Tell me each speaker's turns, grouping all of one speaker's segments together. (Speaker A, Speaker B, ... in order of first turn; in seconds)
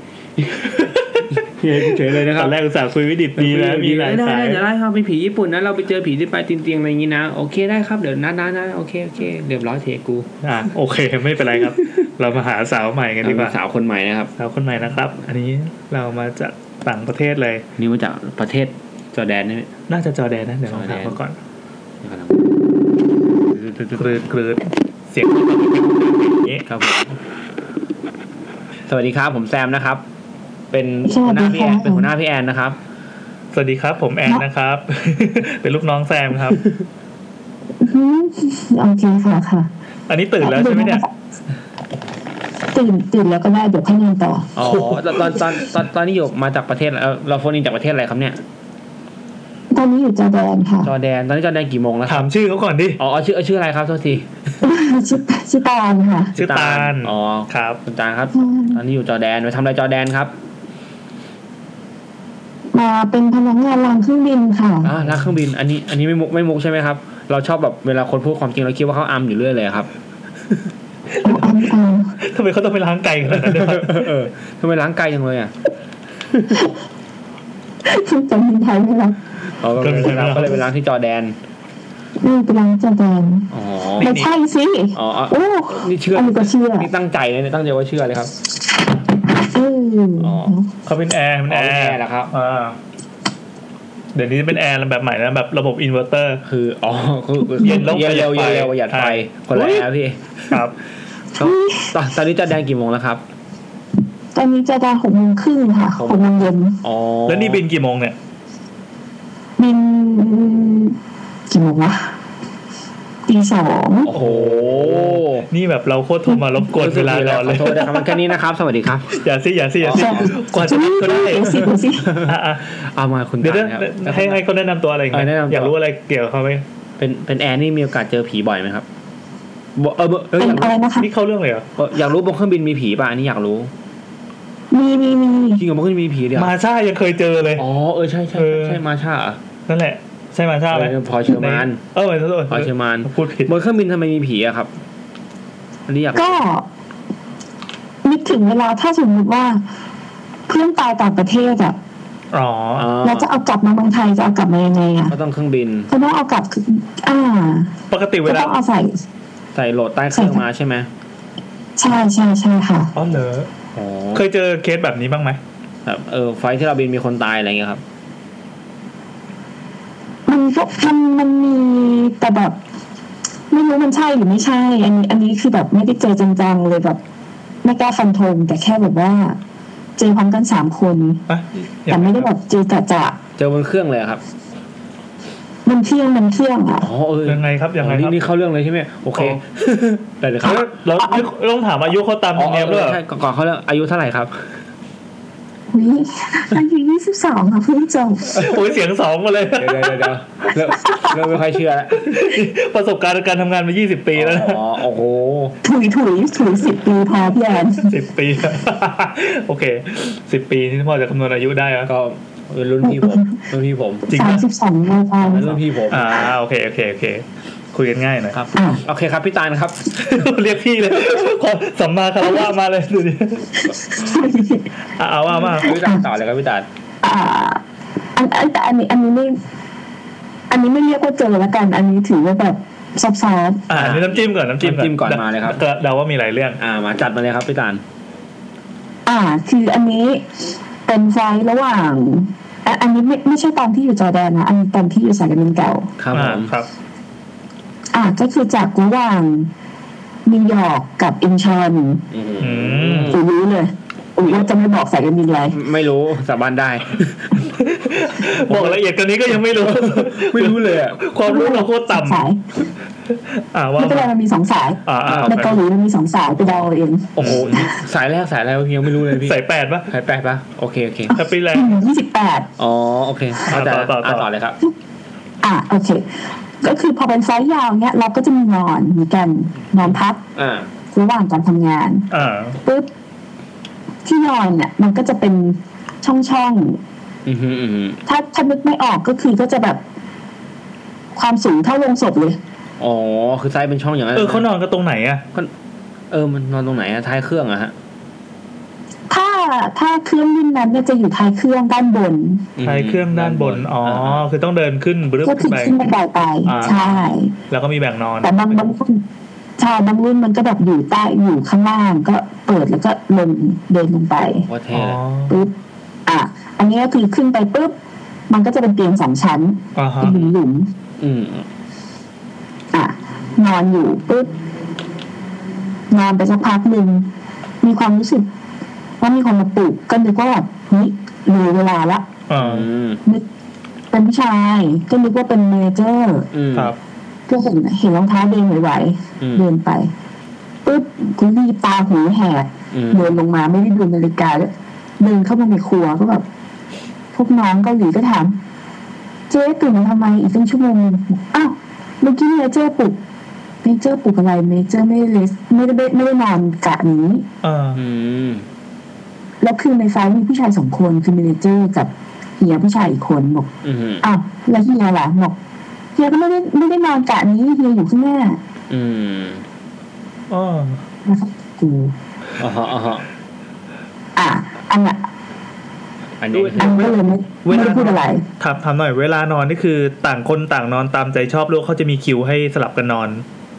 Speaker A: 0.5-4.6, 10.4-13.6, 14.4-17.6, 19.9-21.4, 23.9-26.6, 33.5-36.6, 40.1-41.0, 44.6-45.4, 52.1-53.0, 56.4-57.8, 71.2-71.7, 72.2-74.1, 79.8-80.6, 84.0-84.3, 90.8-92.8, 94.1-96.4, 97.6-99.9, 100.5-100.7, 107.3-108.2, 114.1-118.0, 119.1-122.6, 123.4-126.6, 131.0-131.7, 136.3-137.6, 138.3-138.8, 139.7-143.5, 152.3-152.9, 157.9-158.6, 162.9-163.5, 164.1-165.4, 181.3-182.3, 187.2-188.2, 189.1-189.4, 190.4-193.0, 198.3-200.1, 202.0-204.6, 207.8-211.9, 214.1-214.4, 215.9-218.4, 219.9-223.6, 225.0-225.8, 233.7-236.6, 246.1-246.7, 252.4-253.2, 257.5-262.2, 263.1-264.1, 264.9-265.6, 267.2-267.5, 269.1-269.9, 271.1-271.8, 273.5-274.3, 282.1-282.6, 294.1-295.2, 302.6-305.8, 306.4-306.8, 307.5-308.6, 314.7-315.4, 319.8-320.2, 332.3-332.6, 357.4-357.8, 370.3-370.8, 377.4-383.2
Speaker B: 1.3-2.6, 3.4-10.3, 13.2-14.3, 17.8-19.7, 20.7-21.2, 22.0-22.5, 23.5-24.2, 26.7-27.1, 28.9-30.0, 30.7-32.8, 44.5-48.4, 50.8-52.3, 53.0-54.3, 56.3-60.3, 64.8-69.9, 73.3-75.5, 79.6-81.3, 83.5-84.2, 84.9-88.3, 90.2-90.5, 91.5-92.3, 96.4-100.6, 101.3-103.2, 105.9-107.6, 114.0-115.5, 116.7-119.2, 119.8-120.3, 122.0-124.4, 125.1-125.7, 127.0-128.8, 129.8-130.7, 131.8-133.7, 135.6-136.5, 137.6-139.4, 140.7-141.8, 142.5-144.7, 145.9-146.4, 152.8-153.3, 155.1-155.9, 159.5-160.9, 163.7-164.2, 165.8-167.8, 183.4-184.2, 186.8-190.7, 192.3-194.4, 199.6-202.2, 204.1-205.6, 211.8-214.1, 215.2-216.3, 218.3-219.9, 225.4-226.7, 233.7-235.6, 236.6-237.8, 246.0-246.5, 252.1-253.2, 255.5-257.5, 258.4-258.8, 259.5-261.0, 265.0-265.5, 267.1-269.4, 269.9-271.2, 272.6-274.6, 280.3-280.7, 287.2-288.0, 292.8-294.5, 296.1-297.7, 302.6-304.3, 306.6-307.1, 314.2-315.0, 321.0-321.5, 332.4-333.0, 336.3-336.7, 339.2-339.5, 342.7-343.1, 357.7-358.4, 363.6-364.1, 368.7-369.4, 372.4-373.0, 376.2-377.0, 377.5-377.8
Speaker C: 31.1-32.1, 37.8-39.7, 40.4-41.1, 42.7-44.5, 49.7-50.9, 54.6-56.3, 58.3-58.8, 62.7-64.9, 71.2-72.1, 77.8-79.2, 82.2-86.9, 89.3-90.7, 101.4-101.9, 104.3-106.8, 109.6-111.0, 111.5-112.1, 113.2-114.1, 119.9-122.2, 130.3-131.1, 134.7-135.6, 146.2-146.7, 148.0-149.6, 150.5-151.8, 153.0-155.2, 155.9-159.0, 160.1-160.4, 161.8-162.9, 170.2-172.6, 173.5-177.0, 177.6-179.4, 180.0-181.2, 181.9-183.2, 185.6-186.9, 190.4-191.2, 195.7-198.4, 200.8-201.1, 205.6-207.9, 212.8-213.3, 214.1-215.6, 218.5-218.8, 223.9-224.7, 225.7-226.0, 227.0-227.6, 228.2-229.4, 230.5-233.7, 239.1-240.3, 240.8-245.9, 247.9-249.5, 250.2-252.0, 253.1-255.6, 261.2-262.4, 263.8-267.7, 271.2-272.5, 275.4-276.1, 276.6-280.2, 280.9-282.1, 284.0-286.8, 288.1-289.8, 291.1-292.4, 299.1-302.5, 305.2-307.3, 308.2-309.0, 309.6-314.4, 316.1-317.7, 318.3-320.7, 322.7-324.3, 325.9-327.1, 327.6-328.2, 329.0-332.1, 333.9-336.3, 337.3-339.9, 340.6-346.2, 347.1-348.4, 349.3-353.0, 353.6-357.3, 359.4-363.5, 364.0-365.4, 365.9-368.4, 371.1-371.9, 374.1-375.0, 376.6-378.2